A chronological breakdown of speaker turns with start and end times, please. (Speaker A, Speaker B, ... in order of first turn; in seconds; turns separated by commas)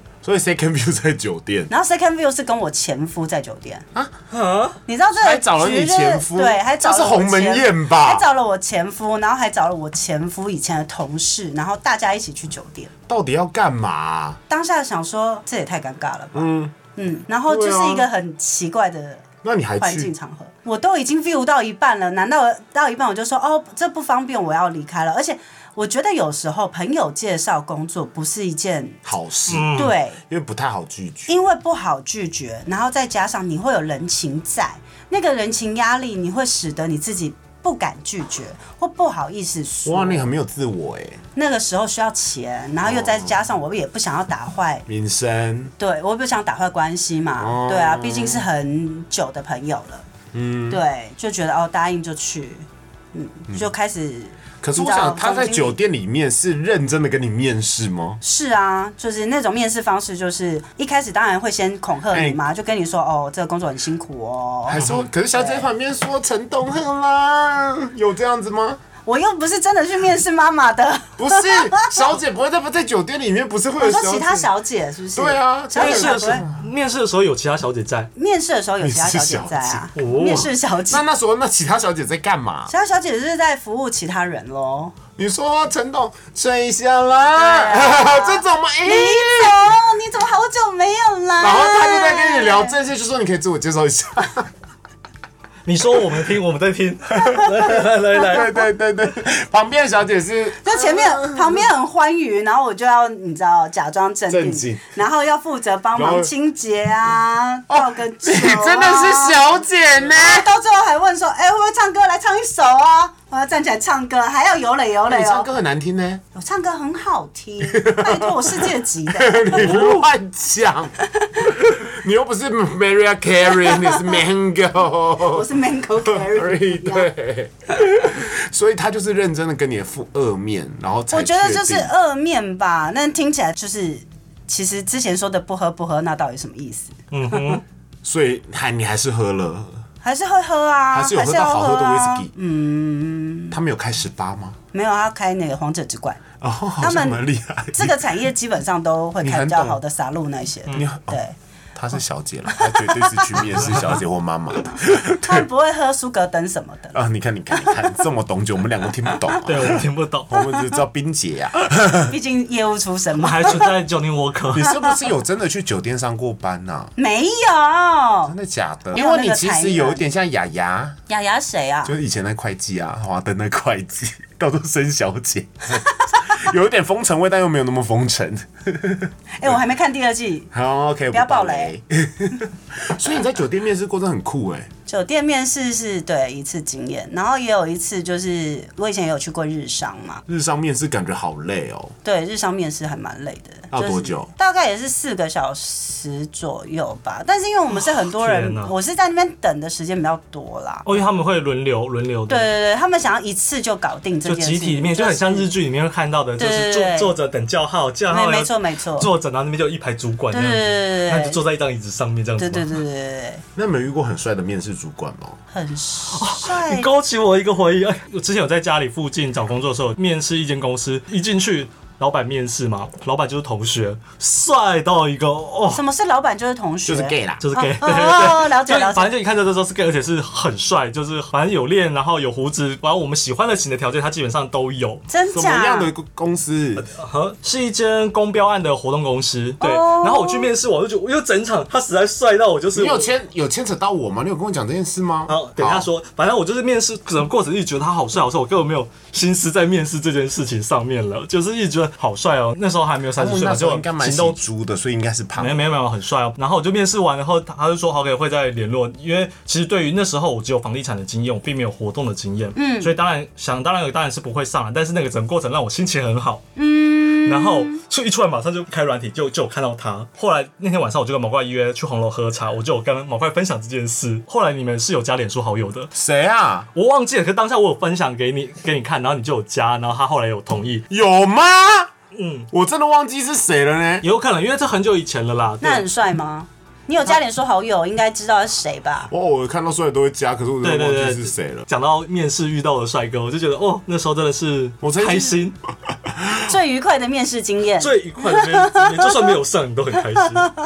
Speaker A: 0.2-1.7, Speaker B: 1.7-3.9, Speaker C: 4.3-4.8, Speaker B: 4.9-12.9, Speaker A: 5.2-8.3, Speaker A: 13.1-14.4, Speaker B: 14.5-29.0, Speaker A: 16.3-16.8, Speaker A: 17.5-18.1, Speaker A: 19.4-20.1, Speaker A: 29.1-31.3, Speaker C: 29.5-29.9, Speaker B: 29.8-30.2, Speaker B: 31.3-40.3, Speaker A: 39.9-41.2, Speaker B: 41.4-44.9, Speaker A: 42.8-43.4, Speaker A: 44.9-45.8, Speaker B: 45.8-50.1, Speaker A: 47.4-48.5, Speaker A: 50.3-50.8, Speaker B: 50.7-55.8, Speaker A: 54.6-58.2, Speaker B: 58.2-64.8, Speaker A: 62.1-62.4, Speaker A: 64.7-68.8, Speaker C: 64.8-65.1, Speaker B: 65.3-65.7, Speaker B: 69.0-72.1, Speaker A: 71.2-74.5, Speaker B: 73.8-76.5, Speaker A: 75.1-76.7, Speaker C: 75.8-78.1, Speaker B: 78.2-81.0, Speaker A: 78.8-82.7, Speaker C: 80.0-80.5, Speaker B: 82.7-85.0, Speaker A: 85.2-89.9, Speaker B: 87.3-92.8, Speaker A: 91.4-94.5, Speaker C: 95.7-98.6, Speaker A: 97.2-101.7, Speaker B: 100.6-115.5, Speaker A: 104.3-105.0, Speaker A: 106.0-106.3, Speaker A: 107.7-110.5, Speaker A: 115.1-116.2, Speaker B: 116.3-119.7, Speaker A: 117.6-125.5, Speaker C: 119.5-120.0, Speaker B: 123.7-124.1, Speaker B: 125.2-127.1, Speaker A: 126.0-131.9, Speaker B: 131.1-137.6, Speaker C: 137.1-137.6, Speaker A: 138.0-139.8, Speaker B: 140.0-143.6, Speaker A: 140.9-142.3, Speaker A: 143.5-144.6, Speaker B: 144.7-146.2, Speaker A: 146.4-148.2, Speaker B: 146.8-147.2, Speaker B: 147.7-151.3, Speaker A: 149.2-149.8, Speaker A: 150.7-151.2, Speaker A: 151.8-155.5, Speaker B: 152.5-153.5, Speaker B: 154.7-157.8, Speaker A: 156.9-162.2, Speaker C: 159.4-160.4, Speaker B: 162.1-163.7, Speaker C: 163.2-164.7, Speaker A: 164.5-166.9, Speaker B: 167.0-168.3, Speaker A: 168.3-171.0, Speaker B: 168.9-170.0, Speaker B: 171.1-171.9, Speaker A: 171.9-179.6, Speaker B: 179.4-180.5, Speaker A: 180.5-184.7, Speaker B: 181.1-181.7, Speaker B: 184.9-190.2, Speaker A: 190.3-191.9, Speaker B: 192.0-200.9, Speaker A: 193.7-194.3, Speaker C: 197.8-198.7, Speaker C: 200.9-202.5, Speaker B: 202.3-205.5, Speaker C: 204.3-212.8, Speaker B: 206.4-207.2, Speaker B: 208.1-209.1, Speaker B: 210.3-211.4, Speaker B: 212.4-213.4, Speaker A: 213.6-215.4, Speaker B: 215.5-216.9, Speaker C: 216.1-225.8, Speaker B: 225.7-229.1, Speaker A: 226.9-227.5, Speaker C: 227.4-235.0, Speaker B: 235.1-235.9, Speaker A: 235.3-236.9, Speaker C: 236.8-243.1, Speaker B: 239.6-240.5, Speaker A: 242.7-245.9, Speaker C: 245.3-254.4, Speaker A: 253.2-255.7, Speaker C: 255.4-266.5, Speaker B: 262.6-262.9, Speaker B: 266.6-267.8, Speaker C: 267.2-275.9, Speaker A: 275.9-276.7, Speaker C: 276.8-280.8, Speaker A: 280.9-281.9, Speaker C: 282.1-282.5, Speaker A: 282.5-284.1, Speaker C: 284.0-285.9, Speaker B: 285.6-289.1, Speaker A: 289.1-291.7, Speaker C: 290.6-295.6, Speaker A: 294.8-295.4, Speaker A: 295.9-296.5, Speaker B: 296.4-299.3, Speaker C: 297.8-300.5, Speaker B: 300.1-300.5